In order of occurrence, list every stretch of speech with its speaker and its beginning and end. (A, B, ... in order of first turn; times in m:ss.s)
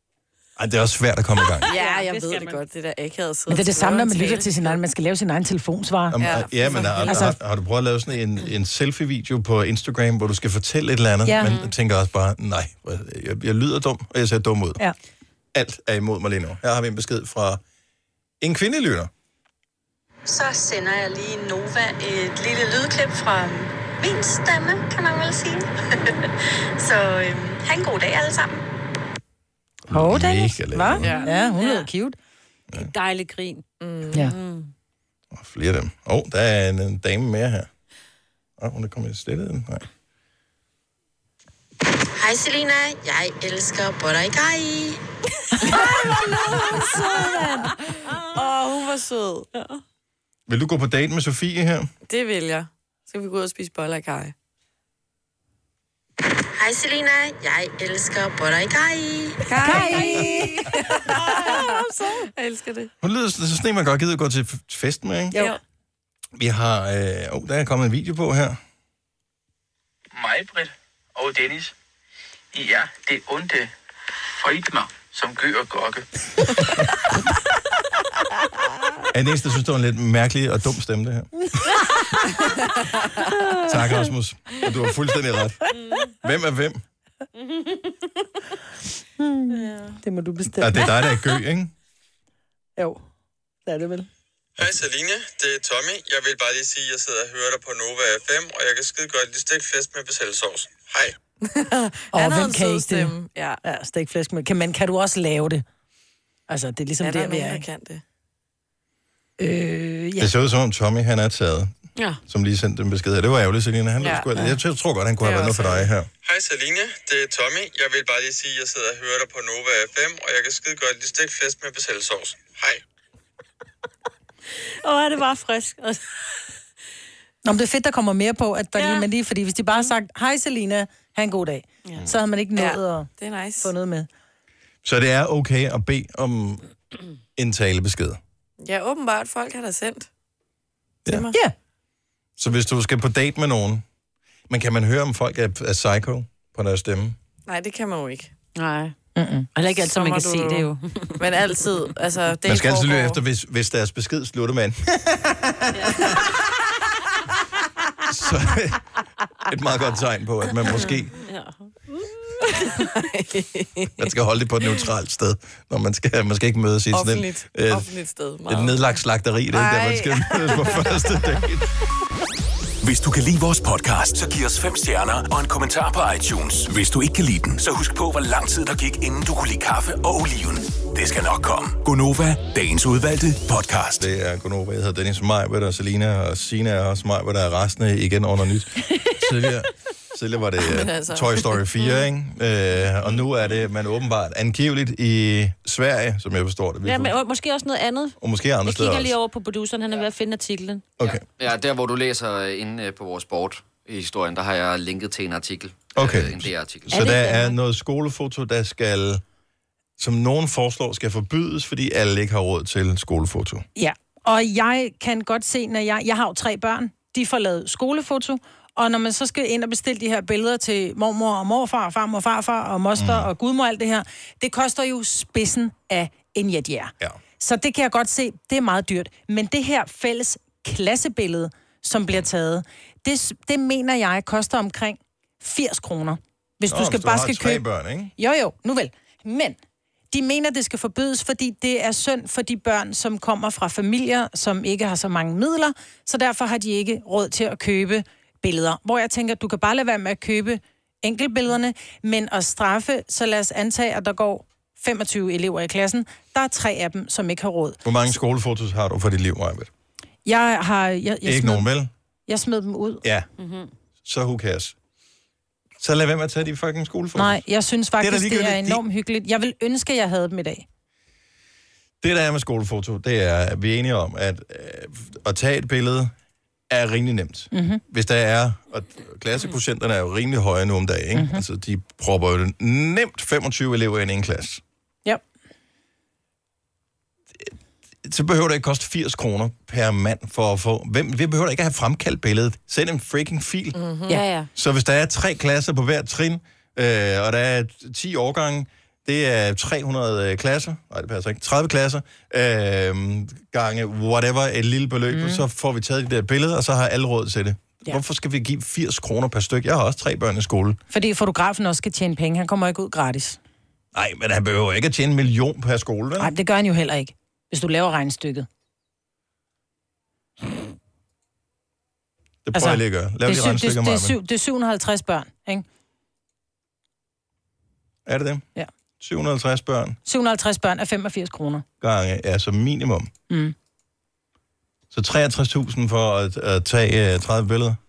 0:00.6-0:01.7 A
0:01.7-0:04.8 B
0:01.7-0:02.6 C
0:03.5-0:06.2 D
0:06.1-0:14.8 A
0:06.2-0:07.2 B
0:07.0-0:07.4 D
0:11.3-0:11.5 D
0:11.4-0:11.7 C
0:15.5-0:17.6 A
0:18.4-0:19.1 A
0:20.3-0:25.7 E
0:26.2-0:28.6 E
0:29.9-0:31.1 A
0:29.9-0:32.2 D
0:31.0-0:31.3 B
0:31.1-0:31.9 C
0:32.7-0:34.7 C
0:33.8-0:34.3 B
0:35.3-0:37.7 A
0:38.6-0:39.9 A
0:42.2-0:45.0 E
0:45.6-0:47.7 D
0:48.3-0:49.5 B
0:50.5-0:51.9 A
0:52.1-0:54.3 B
0:56.6-0:59.4 E
0:59.4-1:01.8 B
0:59.6-1:02.3 D
1:02.3-1:02.9 B
1:03.0-1:05.4 A
1:06.4-1:08.6 A
1:10.1-1:11.7 F
1:12.5-1:13.7 F
1:14.4-1:16.1 F
1:19.1-1:21.3 A
1:23.7-1:25.6 A
1:25.8-1:26.1 C
1:26.2-1:26.8 A
1:29.2-1:30.9 D
1:29.5-1:30.0 C
1:30.6-1:31.7 A
1:32.8-1:33.0 D
1:33.7-1:34.1 D
1:34.6-1:41.2 G
1:41.4-1:43.6 B
1:42.1-1:45.6 D
1:46.5-1:47.6 D
1:47.0-1:48.0 B
1:49.4-1:50.3 D
1:50.2-1:51.7 A
1:52.3-1:56.1 A
1:54.0-1:54.3 B
1:55.2-1:55.9 B
1:56.2-2:02.8 G
2:04.8-2:06.0 C
2:07.4-2:13.1 D
2:08.8-2:09.1 C
2:12.6-2:13.7 B
2:13.6-2:14.1 D
2:14.8-2:16.6 A
2:17.4-2:18.2 A
2:18.6-2:20.1 B
2:21.1-2:21.4 B
2:22.4-2:23.8 A
2:24.5-2:27.2 A
2:27.5-2:28.3 B
2:28.6-2:29.0 C
2:29.2-2:29.5 D
2:29.6-2:31.1 C
2:29.8-2:33.2 B
2:32.5-2:36.1 A
2:35.8-2:36.2 C
2:38.1-2:38.8 A
2:39.5-2:41.1 A
2:40.7-2:42.0 C
2:42.6-2:44.0 B
2:44.0-2:47.9 A
2:46.9-2:48.8 B
2:48.5-2:51.7 A
2:49.5-2:50.9 B
2:52.8-3:04.1 H
3:04.0-3:17.2 A
3:10.6-3:11.6 B
3:16.8-3:20.8 C
3:18.2-3:19.2 A
3:21.0-3:27.0 I
3:26.0-3:29.2 A
3:26.9-3:27.6 C
3:30.0-3:33.6 A
3:33.8-3:57.6 D
3:43.0-3:43.3 A
3:56.7-3:58.1 A
3:58.2-3:59.6 D
4:00.1-4:17.8 D
4:17.8-4:19.7 A
4:20.2-4:21.7 D
4:21.2-4:21.9 A
4:22.3-4:23.0 D
4:23.0-4:23.3 A
4:23.4-4:23.7 C
4:24.0-4:24.8 A
4:25.8-4:27.4 A
4:27.2-4:30.7 D
4:28.0-4:28.8 A
4:32.0-4:36.1 A
4:36.7-4:44.6 A
4:37.5-4:37.8 D
4:41.2-4:41.4 D
4:48.0-4:53.8 A
4:53.8-4:54.2 B
4:54.1-4:54.5 C
4:54.6-5:10.8 A
5:05.1-5:05.4 D
5:10.9-5:13.4 D
5:13.9-5:16.3 A
5:16.2-5:18.5 D
5:22.4-5:24.2 A
5:22.5-5:25.7 D
5:28.1-5:28.5 A
5:29.0-5:30.0 A
5:30.1-5:31.6 D
5:31.8-5:33.1 A
5:33.3-5:33.5 D
5:34.9-5:37.8 A